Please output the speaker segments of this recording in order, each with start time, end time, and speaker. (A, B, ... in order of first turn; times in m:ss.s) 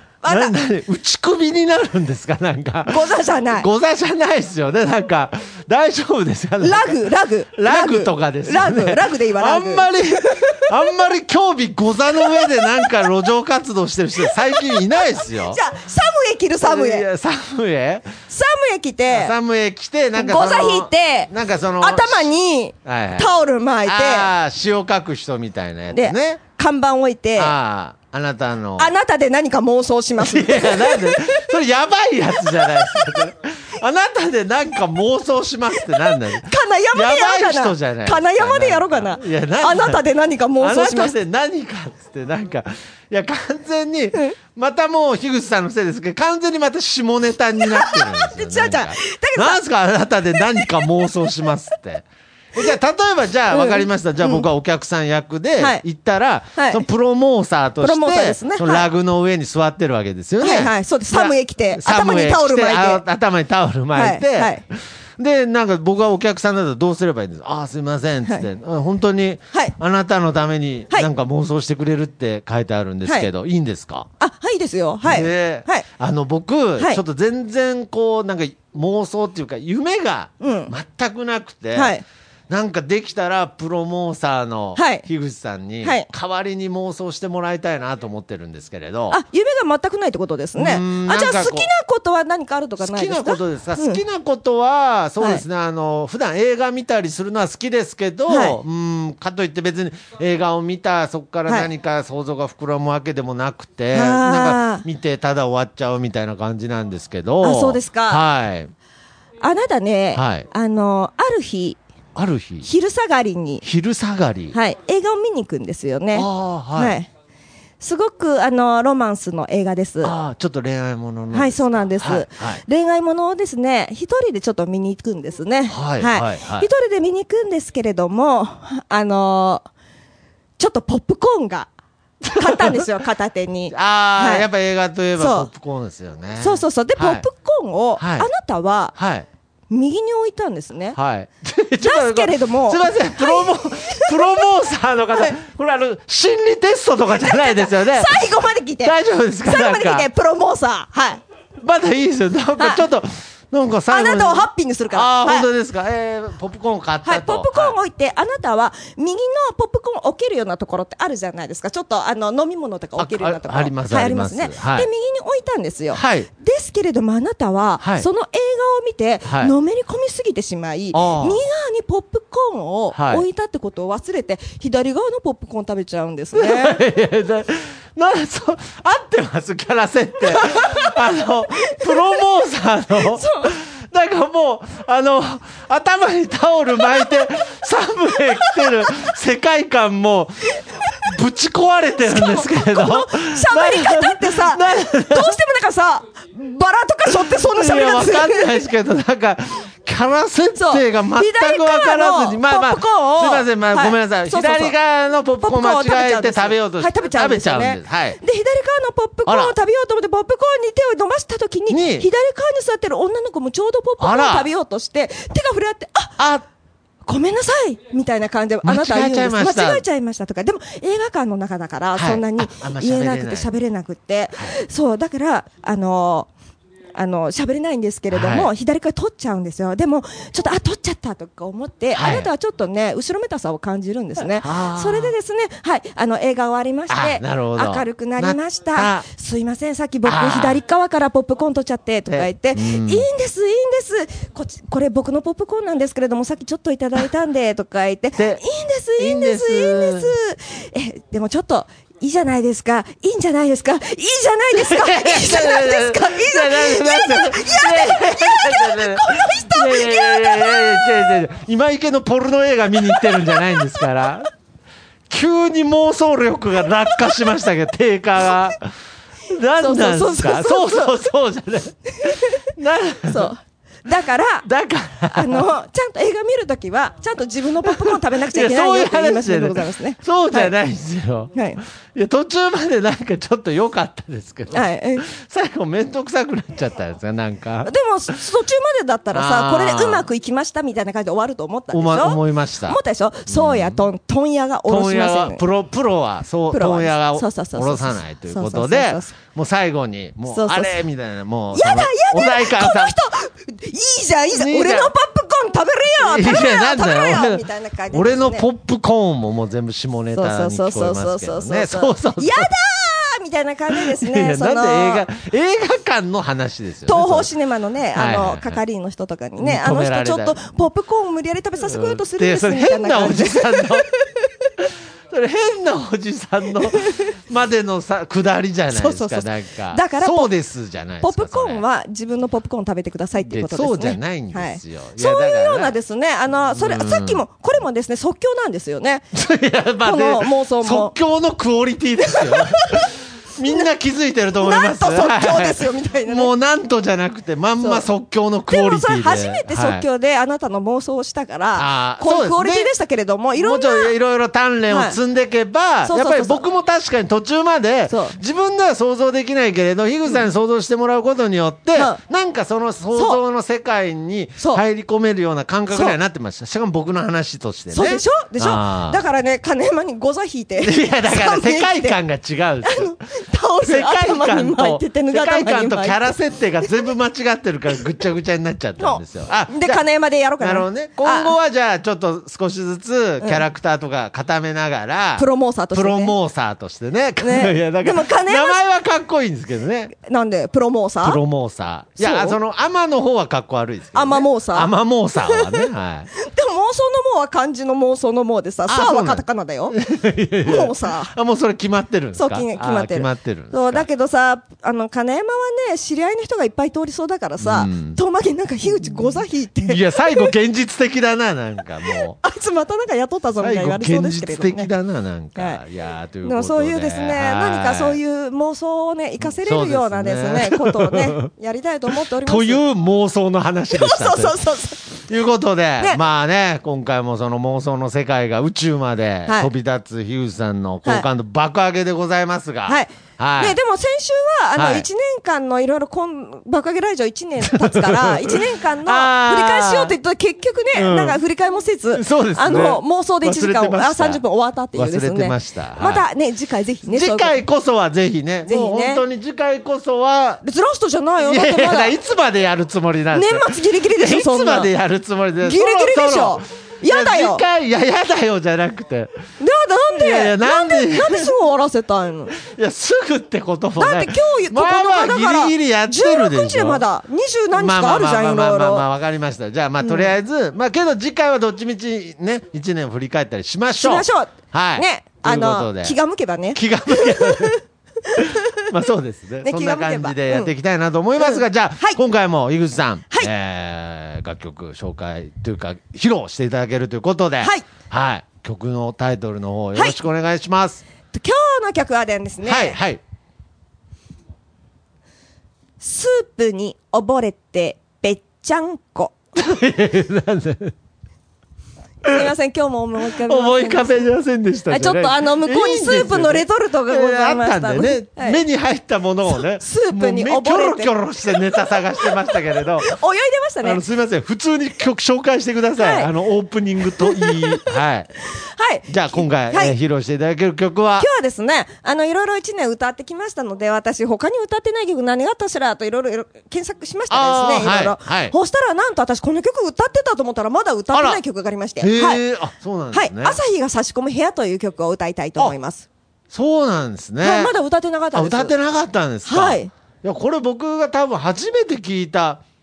0:00.2-0:00.6 A
0:00.3-0:15.6 B
0:02.9-0:03.7 A
0:06.6-0:10.7 A
0:12.2-0:12.7 A
0:14.2-0:17.1 A
0:16.6-0:18.1 B
0:18.3-0:19.4 A
0:19.1-0:22.3 B
0:20.2-0:24.3 A
0:22.8-0:23.3 B
0:23.8-0:26.4 B
0:25.9-0:27.5 A
0:27.4-0:28.9 B
0:28.8-0:31.5 A
0:30.2-0:40.0 B
0:32.6-0:33.2 A
0:36.4-0:41.2 A
0:40.6-1:04.6 B
0:47.6-0:49.6 A
0:50.5-0:50.8 A
0:53.5-0:54.5 A
0:55.6-0:55.8 A
0:56.6-0:56.8 A
0:57.8-0:58.9 A
1:00.4-1:03.0 A
1:04.0-1:04.6 A
1:05.2-1:14.1 B
1:14.2-1:15.9 A
1:15.0-1:22.0 B
1:20.4-1:20.7 A
1:21.8-1:22.0 A
1:22.5-1:29.2 B
1:24.8-1:25.1 A
1:25.8-1:26.1 A
1:29.1-1:34.0 A
1:30.6-1:31.7 B
1:32.8-1:48.7 B
1:38.3-1:38.6 A
1:43.9-1:44.8 A
1:47.4-1:48.2 A
1:49.4-1:51.8 A
1:50.2-1:50.4 B
1:52.2-1:52.7 B
1:52.6-1:53.6 A
1:53.6-1:54.6 B
1:54.5-1:57.1 A
1:56.1-1:57.0 B
1:57.8-2:00.2 A
2:00.0-2:02.6 B
2:01.3-2:09.7 A
2:05.7-2:06.7 B
2:10.6-2:11.7 A
2:12.3-2:14.5 A
2:12.3-2:12.8 B
2:13.7-2:17.2 B
2:15.2-2:15.5 A
2:16.4-2:19.0 A
2:18.0-2:18.3 B
2:19.0-2:19.3 B
2:19.7-2:21.0 A
2:21.0-2:28.3 B
2:21.8-2:24.3 A
2:27.2-2:31.2 A
2:28.8-2:30.1 B
2:31.6-2:37.8 B
2:32.6-2:32.8 A
2:33.9-2:35.5 A
2:37.0-2:56.8 A
2:43.0-2:44.9 B
2:45.9-2:46.3 B
2:47.8-2:48.1 B
2:49.2-2:49.5 B
2:50.9-2:51.4 B
2:52.9-2:53.2 B
2:56.4-3:10.4 B
3:00.3-3:00.9 A
3:01.7-3:02.0 A
3:03.0-3:03.5 A
3:11.0-3:15.4 B
3:12.0-3:18.6 A
3:17.1-3:28.2 B
3:20.6-3:24.8 A
3:25.4-3:36.2 A
3:29.3-3:29.6 B
3:31.7-3:32.1 B
3:34.0-3:34.5 B
3:36.2-3:36.4 B
3:37.1-3:46.3 A
3:38.6-3:39.8 B
3:42.0-3:43.5 B
3:47.0-4:21.2 A
3:48.1-3:48.5 B
3:51.9-3:52.3 B
3:54.2-3:55.1 B
3:56.9-3:59.1 B
4:00.0-4:00.6 B
4:02.1-4:03.1 B
4:08.2-4:08.4 B
4:09.0-4:10.1 B
4:14.5-4:24.3 B
4:23.0-4:23.4 A
4:25.1-4:28.7 B
4:29.3-4:33.3 B
4:29.6-4:31.0 A
4:32.0-4:32.4 A
4:33.1-4:34.5 A
4:34.4-4:35.5 B
4:35.1-4:40.5 A
4:37.6-4:47.7 B
4:41.4-4:41.6 A
4:44.5-4:45.1 A
4:47.6-4:55.4 A
4:49.1-4:50.1 B
4:51.7-4:53.8 B
4:54.7-5:03.0 B
4:56.5-4:59.2 A
5:00.3-5:00.8 A
5:01.5-5:08.5 A
5:04.3-5:04.9 B
5:06.0-5:12.5 B
5:10.1-5:15.0 A
5:13.7-5:17.3 B
5:16.9-5:24.3 A
5:17.9-5:18.6 B
5:19.4-5:20.4 B
5:21.6-5:23.9 B
5:24.6-5:31.6 B
5:26.7-5:27.1 A
5:28.7-5:30.3 A
5:31.0-5:39.0 A
5:33.2-5:35.8 B
5:36.5-5:37.2 B
5:39.1-5:49.8 B
5:39.8-5:40.9 A
5:42.3-5:42.8 A
5:44.4-5:46.3 A
5:47.6-5:47.9 A
5:48.5-5:54.0 A
5:51.6-5:52.7 B
5:53.4-6:09.0 B
5:54.7-5:55.0 A
5:55.9-5:56.4 A
5:57.9-5:58.2 A
6:02.9-6:03.2 A
6:05.7-6:06.0 A
6:07.7-6:12.0 A
6:10.6-6:13.0 B
6:12.6-6:16.1 A
6:13.6-6:19.8 B
6:18.8-6:21.4 A
6:20.4-6:29.9 B
6:25.2-6:26.2 A
6:27.2-6:28.6 A
6:29.9-6:31.2 A
6:31.0-6:36.1 B
6:32.0-6:32.4 A
6:33.9-6:39.8 A
6:38.7-6:43.9 B
6:40.4-6:41.2 A
6:42.1-6:50.3 A
6:47.4-6:48.0 B
6:49.7-6:52.2 B
6:51.9-6:54.7 A
6:53.4-6:58.0 B
6:56.2-7:02.6 A
6:59.2-7:01.0 B
7:02.2-7:04.4 B
7:03.7-7:04.9 A
7:04.9-7:13.6 B
7:09.3-7:09.5 A
7:12.7-7:27.4 A
7:14.6-7:14.9 B
7:17.5-7:20.0 B
7:20.7-7:21.2 B
7:21.9-7:24.2 B
7:24.8-7:26.1 B
7:26.9-7:30.4 B
7:28.5-7:29.0 A
7:30.4-7:32.0 A
7:31.2-7:39.1 B
7:33.1-7:34.7 A
7:35.4-7:37.4 A
7:39.4-7:42.4 A
7:40.0-7:41.3 B
7:42.4-7:46.8 B
7:43.8-7:48.9 A
7:47.5-7:56.0 B
7:49.8-7:50.1 A
7:53.7-7:58.7 A
7:56.5-7:57.6 B
7:58.2-8:10.8 B
7:59.4-8:00.5 A
8:01.2-8:02.0 A
8:07.4-8:07.7 A
8:11.1-8:12.8 A
8:12.4-8:13.0 B
8:15.8-8:19.2 A
8:19.4-8:20.8 B
8:22.0-8:24.1 A
8:23.2-8:32.9 B
8:24.7-8:28.4 A
8:29.3-8:33.8 A
8:33.6-8:38.1 B
8:35.8-8:36.1 A
8:37.0-8:37.5 A
8:38.3-8:39.8 A
8:38.9-8:41.1 B
8:41.0-8:52.2 A
8:47.1-8:48.4 B
8:50.9-8:51.2 B
8:51.8-8:53.4 B
8:52.9-8:55.9 A
8:56.3-8:57.5 B
8:57.2-8:58.5 A
8:58.1-9:02.4 B
8:59.3-8:59.7 A